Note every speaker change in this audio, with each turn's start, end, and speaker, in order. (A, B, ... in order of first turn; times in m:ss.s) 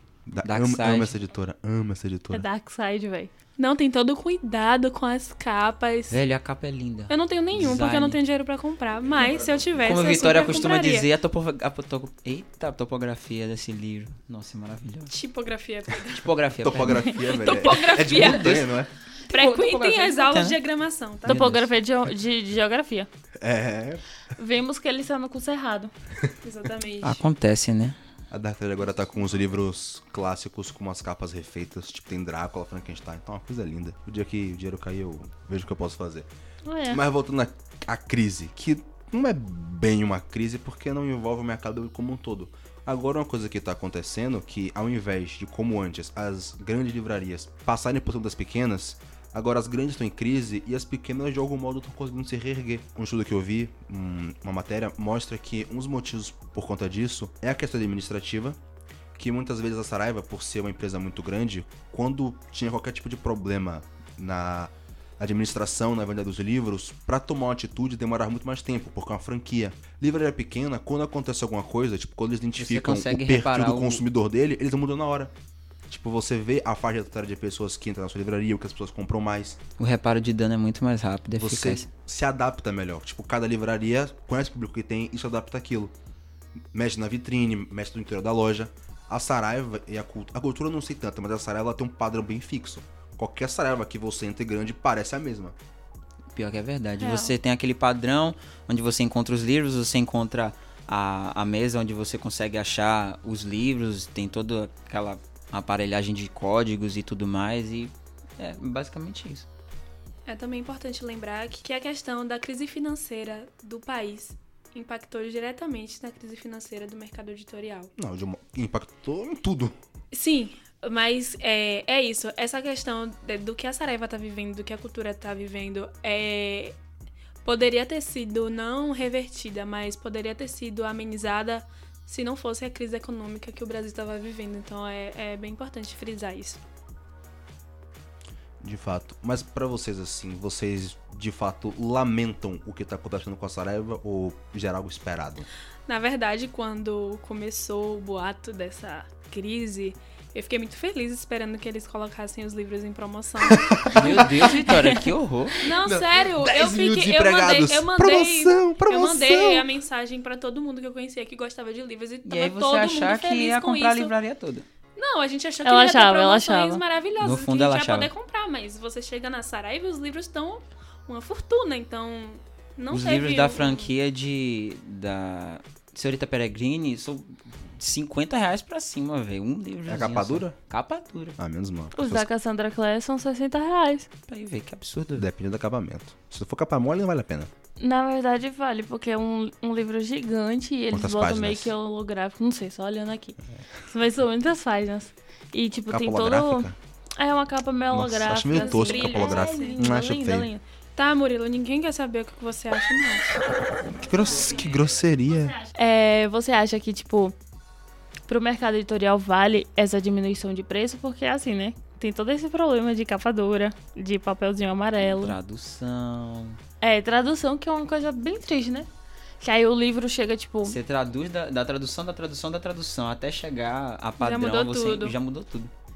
0:00.3-0:02.5 A
0:00.4-0:01.1 B
0:02.3-0:03.3 C
0:03.6-0:06.2 D
0:06.1-0:08.2 B
0:07.1-0:11.1 D
0:09.8-0:15.1 B
0:15.1-0:16.3 D
0:16.0-0:17.4 B
0:16.6-0:18.9 A
0:17.2-0:18.7 D
0:18.0-0:18.6 B
0:19.3-0:20.6 B
0:19.3-0:21.5 D
0:21.2-0:21.7 B
0:21.3-0:23.1 C
0:23.4-0:24.0 A
0:24.4-0:25.9 C
0:26.4-0:27.2 D
0:27.0-0:28.0 B
0:28.3-0:36.3 A
0:36.7-0:37.0 C
0:36.9-0:58.6 A
0:59.2-1:15.3 A
1:12.6-1:14.0 B
1:15.9-1:19.6 A
1:19.8-1:21.9 B
1:21.4-1:25.9 A
1:26.7-1:35.6 A
1:36.4-1:49.5 B
1:37.0-1:37.3 C
1:50.3-1:57.9 D
1:58.0-1:59.8 A
2:00.1-2:06.8 D
2:07.4-2:16.6 D
2:18.6-2:25.5 A
2:25.9-2:34.7 D
2:33.5-2:34.5 A
2:33.9-2:35.7 B
2:35.6-2:44.1 D
2:35.8-2:39.7 A
2:42.2-2:44.7 B
2:45.0-2:53.9 D
2:45.6-2:46.8 C
2:47.2-2:48.1 B
2:52.9-3:01.4 B
2:59.9-3:00.6 A
3:01.4-3:02.3 A
3:02.0-3:04.1 C
3:04.3-3:05.2 B
3:05.2-3:07.5 A
3:07.8-3:20.6 C
3:10.9-3:11.7 A
3:15.9-3:16.8 A
3:17.9-3:20.5 A
3:18.5-3:19.8 D
3:21.0-3:23.4 D
3:23.9-3:25.6 A
3:25.6-3:27.4 C
3:28.3-3:35.4 C
3:35.0-3:36.6 B
3:36.8-3:38.9 C
3:39.4-3:40.8 C
3:40.6-3:45.7 B
3:44.2-3:45.2 D